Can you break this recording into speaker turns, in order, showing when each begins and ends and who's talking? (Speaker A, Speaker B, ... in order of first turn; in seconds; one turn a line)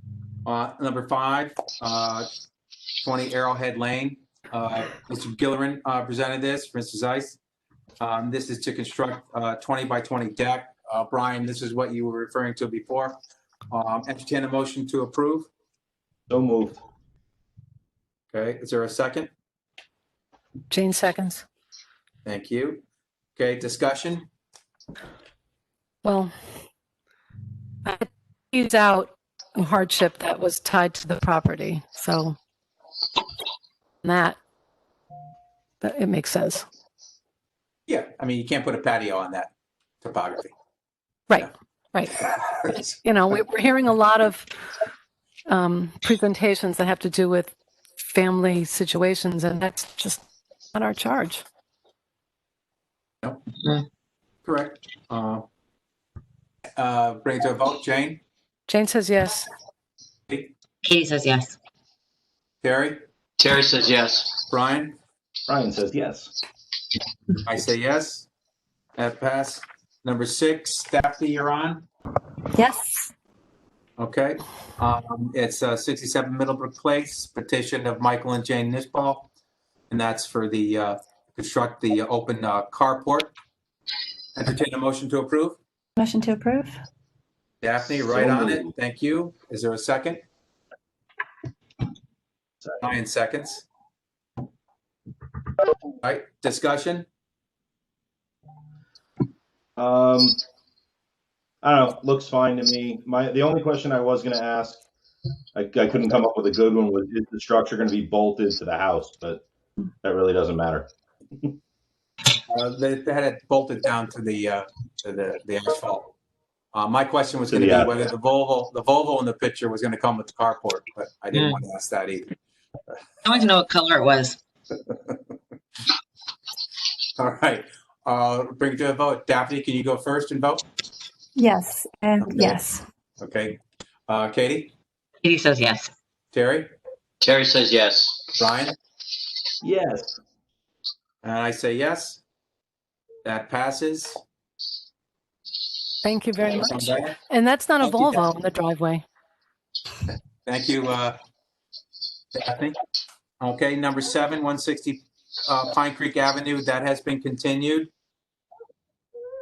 Speaker A: 0.4-2.3
Speaker A: 3.0-7.4
Speaker A: 8.0-13.2
Speaker A: 13.7-15.5
Speaker B: 16.3-16.8
Speaker A: 18.3-19.3
Speaker C: 20.7-21.4
Speaker A: 22.2-22.8
Speaker A: 23.4-24.3
Speaker C: 26.0-26.3
Speaker C: 27.8-32.4
Speaker C: 34.0-34.4
Speaker C: 35.8-36.6
Speaker A: 37.9-39.5
Speaker A: 40.0-40.5
Speaker C: 41.3-42.2
Speaker A: 42.5-42.8
Speaker C: 43.0-44.5
Speaker C: 45.5-47.5
Speaker C: 48.0-51.4
Speaker A: 54.4-55.5
Speaker A: 56.8-58.2
Speaker C: 58.7-59.5
Speaker D: 60.8-61.5
Speaker A: 62.6-63.0
Speaker E: 63.4-64.3
Speaker A: 64.5-65.0
Speaker B: 65.5-66.3
Speaker A: 67.3-68.3
Speaker A: 69.0-71.8
Speaker F: 72.6-73.1
Speaker A: 74.0-79.3
Speaker A: 79.9-83.3
Speaker A: 84.3-85.6
Speaker F: 86.0-86.7
Speaker A: 87.6-90.2
Speaker B: 88.2-88.6
Speaker A: 92.8-93.6
Speaker A: 96.0-97.0
Speaker B: 99.8-100.4
Speaker B: 101.6-104.8
Speaker B: 105.5-109.4
Speaker B: 110.0-110.9
Speaker A: 112.5-116.1
Speaker A: 116.7-122.3
Speaker B: 117.5-118.1
Speaker D: 121.3-121.6
Speaker D: 123.2-124.4
Speaker A: 127.2-130.6
Speaker F: 131.4-132.8
Speaker A: 133.2-134.7
Speaker D: 135.2-135.9
Speaker A: 136.3-136.7
Speaker E: 137.2-138.3
Speaker A: 138.4-138.8
Speaker B: 139.6-140.2
Speaker A: 141.2-142.2
Speaker A: 143.2-144.2
Speaker C: 146.0-149.0
Speaker A: 146.5-147.2
Speaker A: 150.4-151.2
Speaker A: 152.3-152.8
Speaker A: 153.4-157.9